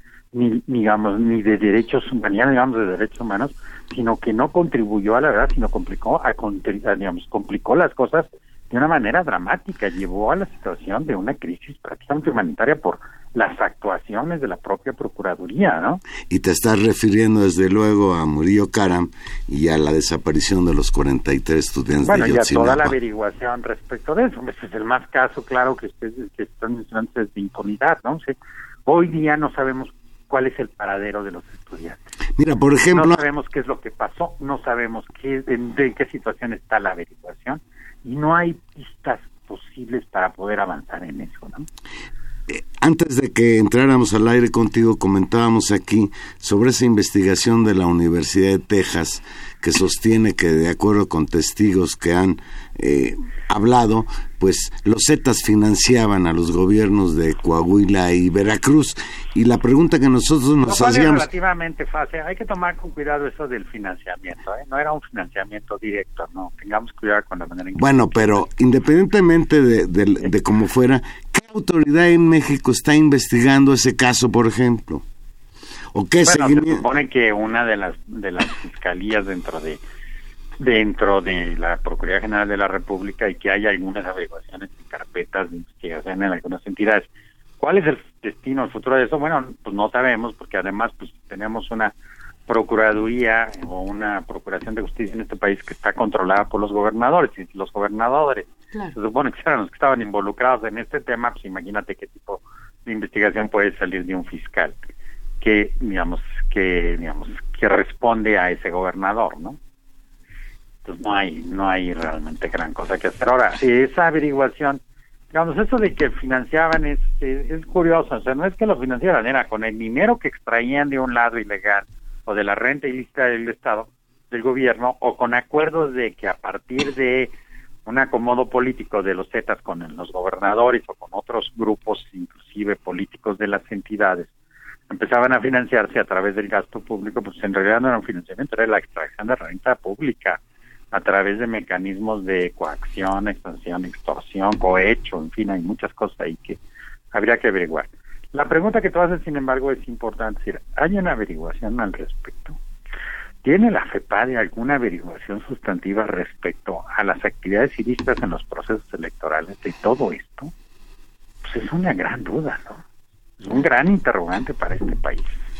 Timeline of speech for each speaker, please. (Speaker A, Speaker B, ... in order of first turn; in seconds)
Speaker A: 0.3-16.0, 22.1-28.4, 28.9-32.0, 32.9-41.6, 60.6-68.4, 76.2-79.8, 80.6-87.1, 87.6-91.9, 92.5-104.7, 105.4-109.6, 110.8-114.8, 115.3-127.3, 127.8-134.3, 134.9-140.4, 140.9-146.6, 147.1-152.6, 153.4-160.5, 161.4-162.8, 163.4-165.3
Speaker B: 16.3-22.9, 32.4-33.2, 42.5-61.3, 67.7-75.0, 75.9-76.8